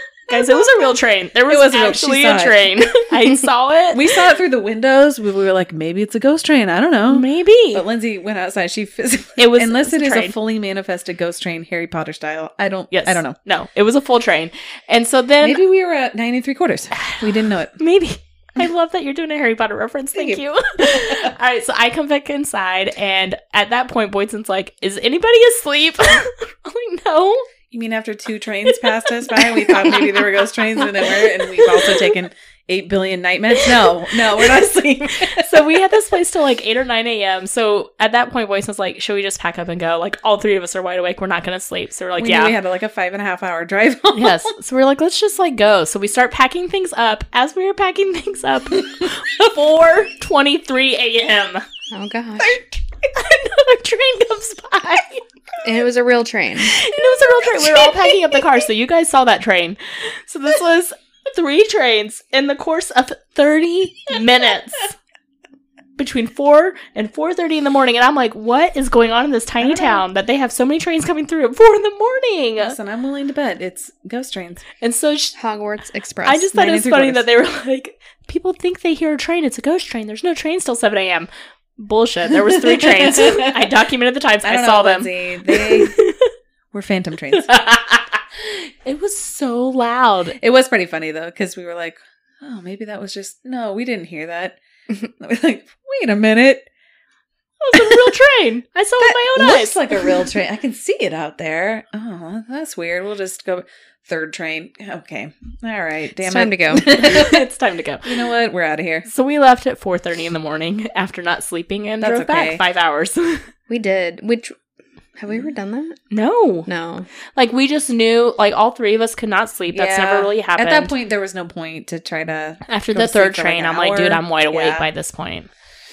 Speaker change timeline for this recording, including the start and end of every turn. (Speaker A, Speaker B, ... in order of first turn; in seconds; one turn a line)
Speaker A: 0.3-0.9
Speaker B: 0.3-4.2
Speaker A: 1.5-3.0
Speaker A: 3.9-13.4
Speaker B: 7.1-7.8
Speaker B: 9.4-10.4
Speaker B: 12.9-15.6
Speaker A: 15.4-17.8
Speaker B: 17.0-27.5
Speaker A: 20.1-21.3
Speaker A: 27.7-36.1
Speaker B: 28.7-32.1
Speaker B: 33.5-42.5
Speaker A: 42.2-44.5
Speaker B: 44.1-51.7
Speaker C: 51.9-52.6
Speaker B: 53.1-55.2
Speaker C: 55.6-56.9
Speaker B: 56.6-65.0
Speaker B: 66.0-72.8
Speaker A: 69.6-70.0
Speaker A: 72.6-74.6
Speaker B: 74.8-75.4
Speaker C: 75.4-76.5
Speaker B: 76.2-86.3
Speaker A: 76.5-77.2
Speaker A: 82.7-83.7
Speaker A: 84.4-86.0
Speaker A: 86.7-87.6
Speaker B: 87.3-90.4
Speaker A: 90.4-96.7
Speaker B: 97.6-100.1
Speaker A: 97.7-98.1
Speaker A: 99.0-107.5
Speaker C: 106.2-106.9
Speaker B: 106.9-108.3
Speaker A: 108.0-109.1
Speaker B: 109.0-113.5
Speaker A: 112.0-112.6
Speaker C: 113.7-114.5
Speaker C: 115.2-116.0
Speaker B: 116.1-116.7
Speaker C: 116.7-117.1
Speaker B: 117.3-120.9
Speaker A: 119.7-124.9
Speaker B: 122.7-125.5